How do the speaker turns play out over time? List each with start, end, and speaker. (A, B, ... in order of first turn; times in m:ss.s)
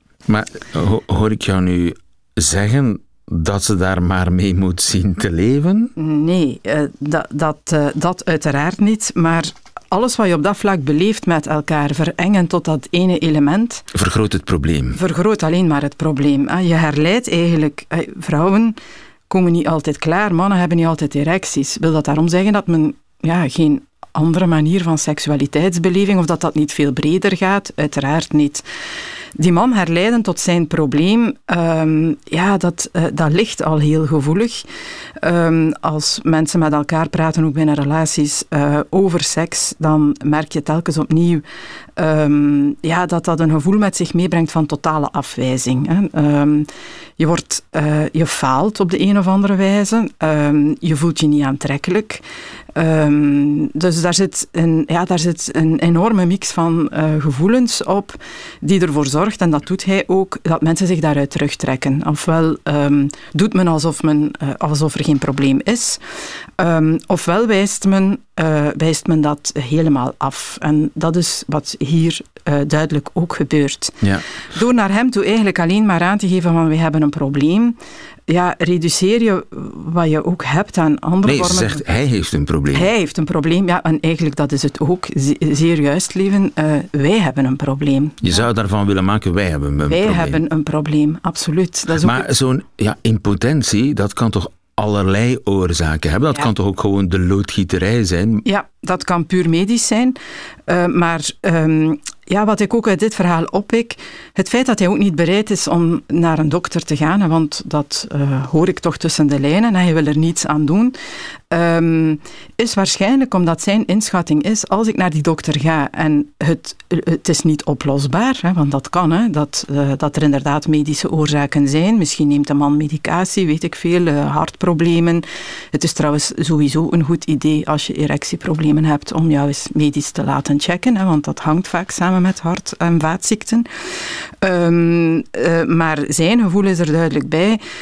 0:00.3-0:05.9 A
0:06.0-0:13.9 B
0:13.9-0:15.0 A
0:14.9-0:18.8 B
0:19.3-0:28.6 B
0:29.4-0:34.6 B
0:35.2-0:41.4 B
0:42.0-0:52.2 B
0:52.7-1:06.0 B
1:06.6-1:17.8 B
1:18.3-1:21.8 B
1:21.2-1:22.9 A
1:22.7-1:28.5 B
1:28.2-1:30.4 A
1:29.8-1:32.2 B
1:31.9-1:38.4 A
1:38.4-1:50.9 B
1:51.5-2:13.7 B
2:14.4-2:17.6 B